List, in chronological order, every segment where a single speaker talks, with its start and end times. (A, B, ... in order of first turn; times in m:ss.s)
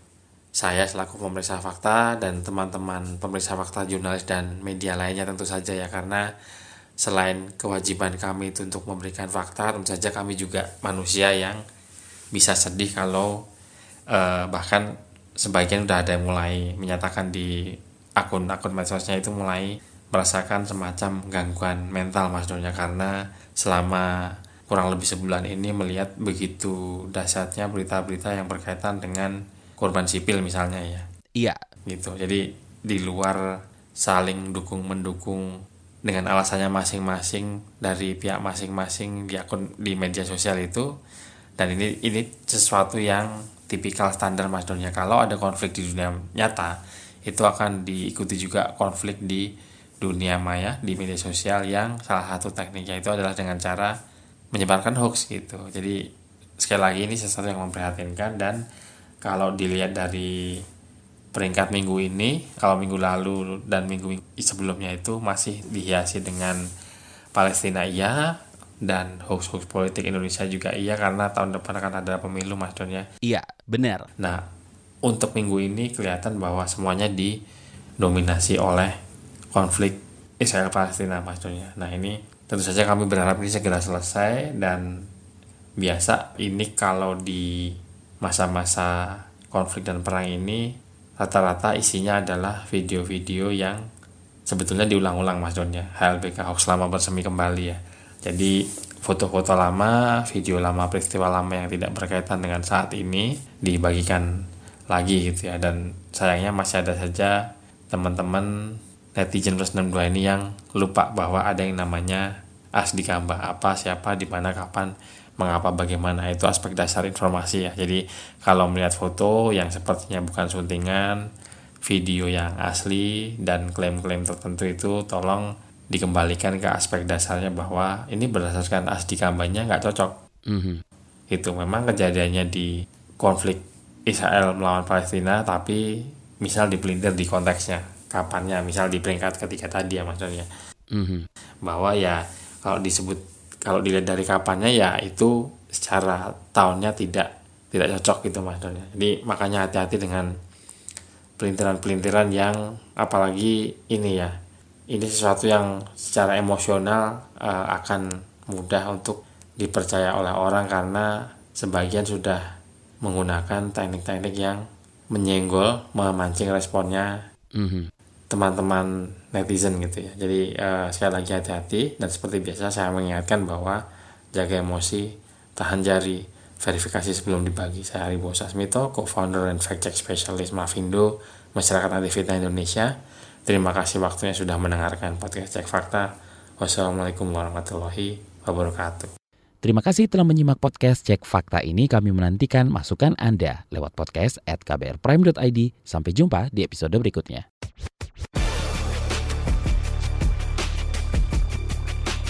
0:00.6-0:06.2 A
0:07.0-0:11.6 A
0:12.3-0:13.4 A
0:14.1-0:14.9 A
0:15.4-0:17.5 A
0:18.2-0:24.1 A
0:24.7-0:31.0 A
0:31.9-0:33.4 A
0:34.0-0:35.4 A
0:36.0-0:40.9 A
0:41.6-0:49.5 A
0:50.0-0:53.9 A
0:54.5-0:56.0 A
0:56.6-0:58.6 A
0:59.2-1:00.3 A
1:01.3-1:06.6 A
1:07.3-1:08.2 A
1:08.8-1:13.0 A
1:13.2-1:14.1 B
1:15.0-1:17.3 A
1:18.0-1:18.9 A
1:19.5-1:24.8 A
1:25.8-1:28.9 A
1:29.5-1:33.8 A
1:34.5-1:44.2 A
1:44.9-1:47.3 A
1:47.9-1:48.5 A
1:49.2-1:52.2 A
1:52.8-2:01.2 A
2:01.8-2:10.1 A
2:10.5-2:10.8 B
2:11.3-2:12.7 A
2:13.2-2:15.8 A
2:16.4-2:20.5 A
2:20.9-2:21.2 B
2:21.6-2:30.3 A
2:31.4-2:34.3 A
2:34.9-2:42.4 A
2:43.0-2:44.6 A
2:45.1-2:47.1 A
2:47.6-2:47.9 B
2:48.3-2:53.8 A
2:54.3-3:02.9 A
3:03.5-3:06.0 A
3:06.6-3:09.1 A
3:09.6-3:17.4 B